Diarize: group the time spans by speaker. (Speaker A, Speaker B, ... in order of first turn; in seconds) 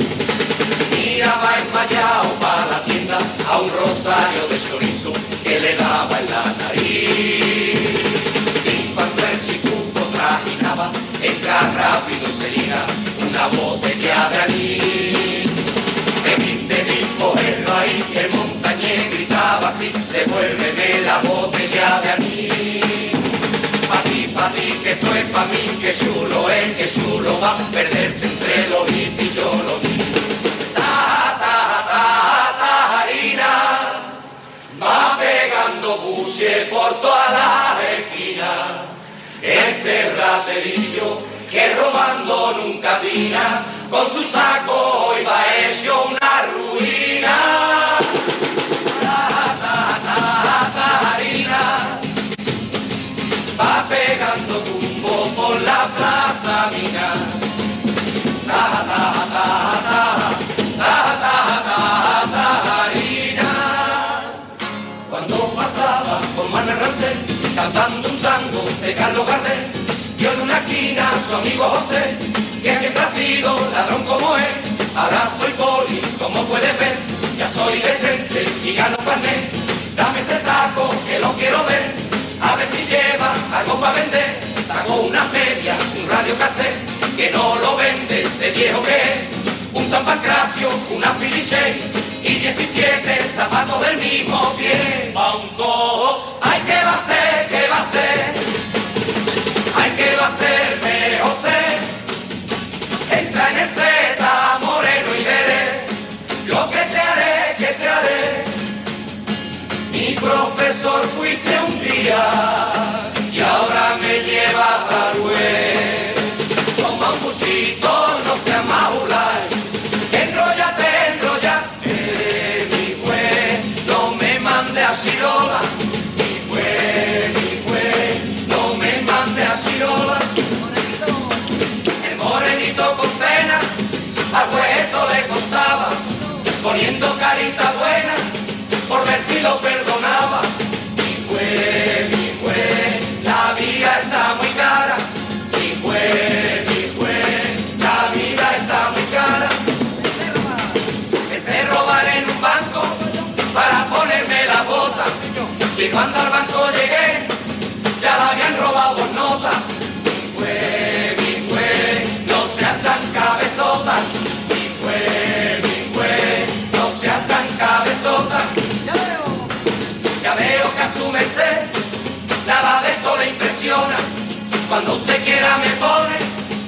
Speaker A: 0.9-15.6, 16.2-23.2, 23.9-34.1, 34.7-48.1, 48.9-52.0, 53.5-57.4, 58.4-64.4, 65.1-98.5, 99.7-101.9, 103.1-108.6, 109.9-130.4, 132.0-133.7, 134.3-136.0, 136.6-138.3, 138.9-149.7, 151.3-157.4, 158.0-168.6, 170.2-171.8, 172.4-174.1, 174.7-176.3